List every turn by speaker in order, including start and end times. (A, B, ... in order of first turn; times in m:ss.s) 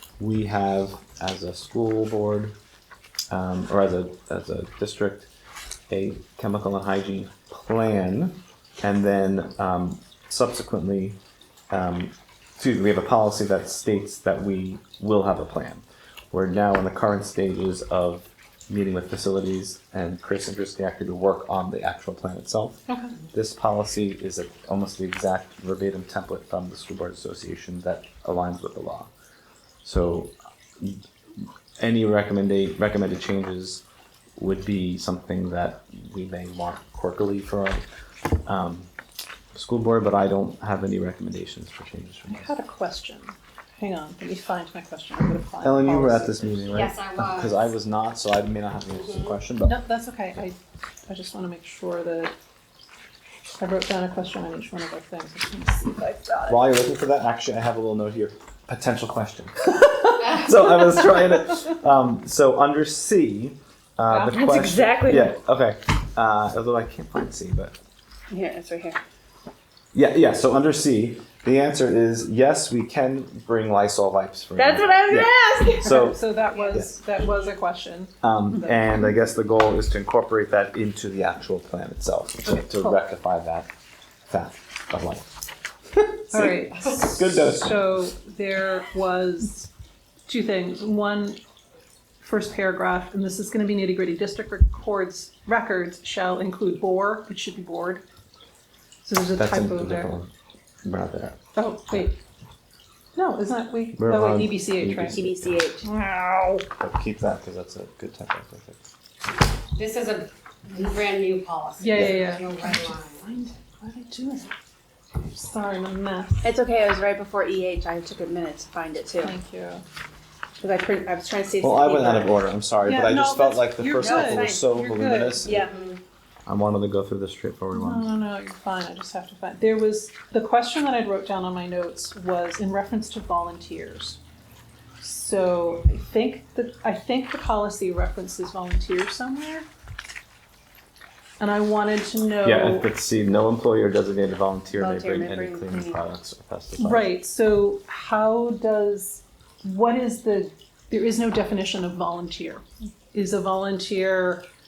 0:00.2-0:02.5 A
0:03.3-0:05.3 A
0:05.9-0:11.2 A
0:11.7-0:29.1 A
0:29.8-0:33.8 A
0:34.4-0:37.8 A
0:38.4-0:38.9 A
0:39.5-0:42.5 A
0:42.3-0:46.6 B
0:45.6-0:49.8 A
0:46.7-0:47.7 C
0:48.9-0:49.4 C
0:49.6-0:52.3 B
0:53.6-0:56.6 B
0:56.5-1:07.7 A
1:04.3-1:05.4 D
1:08.3-1:09.0 D
1:09.9-1:16.9 A
1:14.6-1:15.9 D
1:15.7-1:19.0 B
1:18.2-1:23.7 A
1:22.5-1:23.0 B
1:24.3-1:25.3 A
1:25.9-1:27.9 A
1:26.3-1:29.7 B
1:30.3-1:31.4 B
1:32.2-1:38.0 B
1:39.0-1:40.1 B
1:39.4-1:40.3 A
1:40.8-1:41.4 A
1:41.5-1:42.2 B
1:43.1-1:45.2 B
1:44.0-1:45.7 A
1:45.1-1:45.9 D
1:45.8-1:46.7 B
1:46.8-1:48.8 A
1:49.7-1:53.3 C
1:51.8-1:54.6 B
1:55.2-1:56.5 B
1:56.4-1:59.3 D
1:59.2-1:59.8 B
2:00.6-2:02.4 D
2:01.6-2:05.7 A
2:02.8-2:05.5 B
2:04.0-2:04.6 D
2:05.4-2:05.7 D
2:05.5-2:06.0 C
2:06.4-2:08.1 A
2:07.7-2:14.2 B
2:15.0-2:19.7 B
2:21.4-2:22.9 B
2:22.4-2:27.1 A
2:24.7-2:26.0 D
2:26.8-2:34.5 B